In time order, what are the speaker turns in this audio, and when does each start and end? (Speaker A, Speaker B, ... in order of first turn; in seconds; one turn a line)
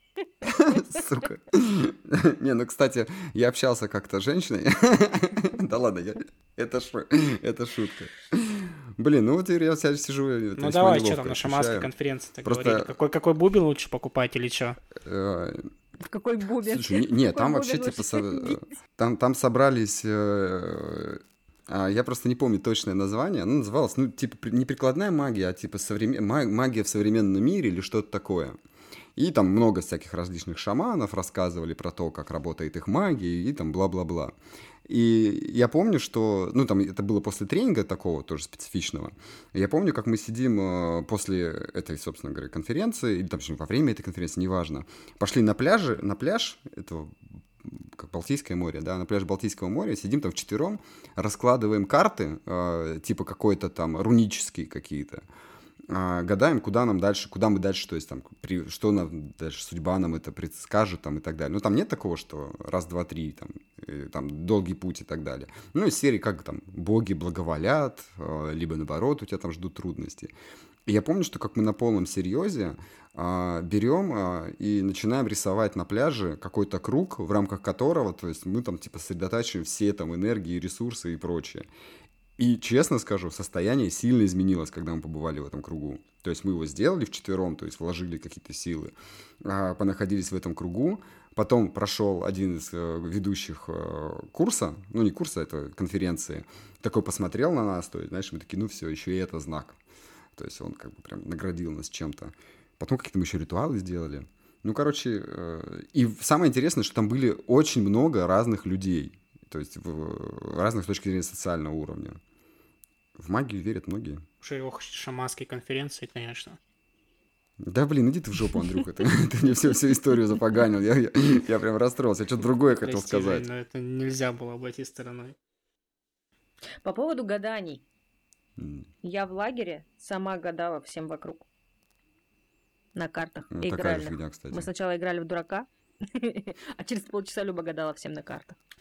Speaker A: 0.4-11.9
Speaker B: 10.6-14.8
Speaker A: 12.4-12.9
Speaker A: 15.0-15.7
Speaker C: 16.0-18.7
Speaker A: 16.6-28.6
Speaker A: 29.2-55.3
Speaker A: 55.9-70.3
Speaker A: 70.9-81.7
Speaker A: 82.4-99.8
Speaker A: 100.4-112.2
Speaker A: 113.2-114.2
Speaker B: 114.4-116.6
Speaker A: 117.7-123.5
Speaker B: 122.8-125.4
Speaker C: 126.8-127.8
Speaker A: 128.6-128.9
Speaker C: 129.0-131.5
Speaker C: 132.9-138.6
Speaker A: 133.5-134.7